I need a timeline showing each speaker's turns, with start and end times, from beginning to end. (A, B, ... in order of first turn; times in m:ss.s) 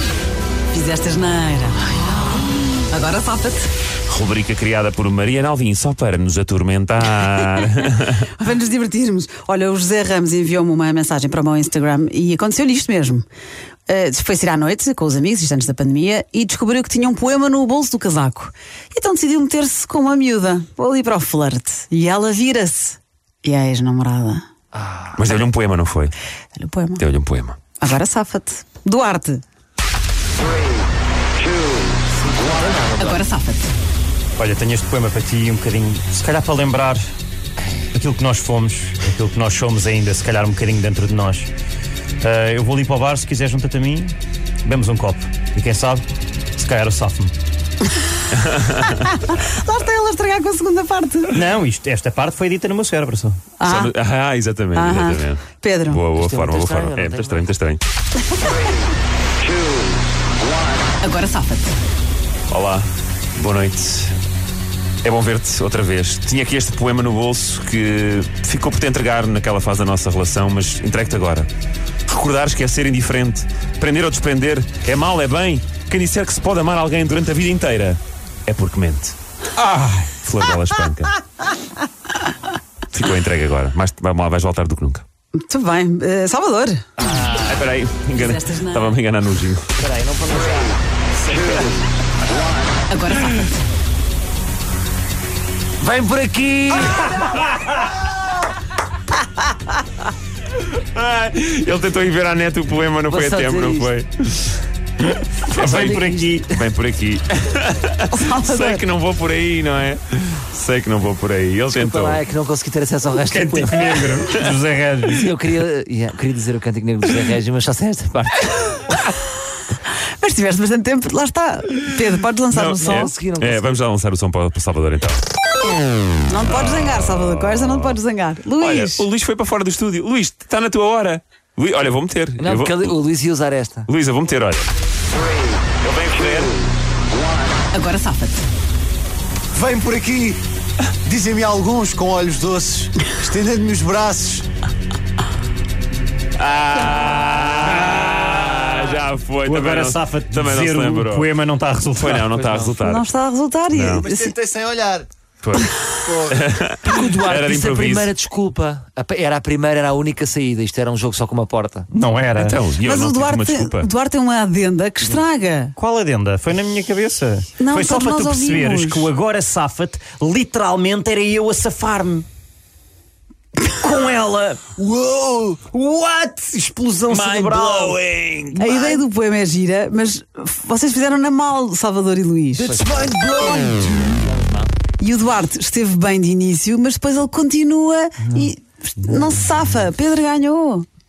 0:00.7-0:02.3 A
0:02.8-0:03.7 A
0:04.1-0:08.3 B
0:08.2-0:13.2 A
0:13.9-0:24.4 A
0:24.7-0:25.1 C
0:25.1-0:26.1 B
0:26.6-0:27.0 A
0:27.0-0:27.6 B
0:27.8-0:29.4 A
0:32.1-0:33.2 C
0:33.0-0:33.7 A
0:34.4-0:37.0 D
0:37.9-0:41.5 D
0:42.2-0:46.0 D
0:46.6-0:47.3 D
0:48.4-0:49.0 B
0:48.9-0:51.4 A
0:51.3-0:53.4 D
0:53.6-0:53.9 A
0:53.6-0:57.8 B
0:54.7-0:56.0 A
0:56.1-0:57.5 C
1:01.0-1:01.8 A
1:02.5-1:04.1 B
1:05.0-1:11.5 B
1:12.1-1:21.2 B
1:22.9-1:25.0 B
1:25.4-1:26.8 A
1:27.0-1:27.5 C
1:27.4-1:29.7 B
1:28.1-1:29.0 A
1:29.8-1:30.8 C
1:31.2-1:31.7 B
1:32.9-1:33.6 A
1:35.8-1:37.2 C
1:40.7-1:44.6 B
1:43.1-1:43.9 C
1:45.4-1:52.2 B
1:45.5-1:46.5 D
1:45.6-1:46.4 C
1:48.1-1:48.8 A
1:51.7-1:54.1 C
1:53.2-1:55.4 D
1:54.1-1:54.5 B
1:55.1-1:59.0 C
2:00.2-2:03.1 A
2:02.5-2:05.2 B
2:02.8-2:03.7 C
2:06.3-2:09.0 A
2:06.5-2:07.8 B
2:08.6-2:13.0 B
2:12.4-2:13.9 C
2:13.9-2:14.7 B
2:15.8-2:16.6 B
2:17.7-2:18.4 A
2:19.5-2:20.4 E
2:21.0-2:24.4 E
2:26.4-2:31.3 B
2:29.4-2:32.8 D
2:31.9-2:33.1 B
2:32.8-2:34.3 A
2:33.7-2:34.0 B
2:34.0-2:35.1 E
2:35.4-2:38.1 B
2:36.0-2:36.4 E
2:36.8-2:41.9 C
2:41.9-2:42.6 D
2:42.3-2:43.9 B
2:42.8-2:45.7 A
2:45.8-2:52.2 D
2:47.6-2:49.1 A
2:53.7-2:54.7 D
2:54.7-2:55.7 E
2:55.7-2:58.0 D
2:57.1-2:59.0 C
2:57.6-2:57.9 E
2:58.5-3:02.7 A
3:02.5-3:04.7 C
3:05.0-3:10.8 A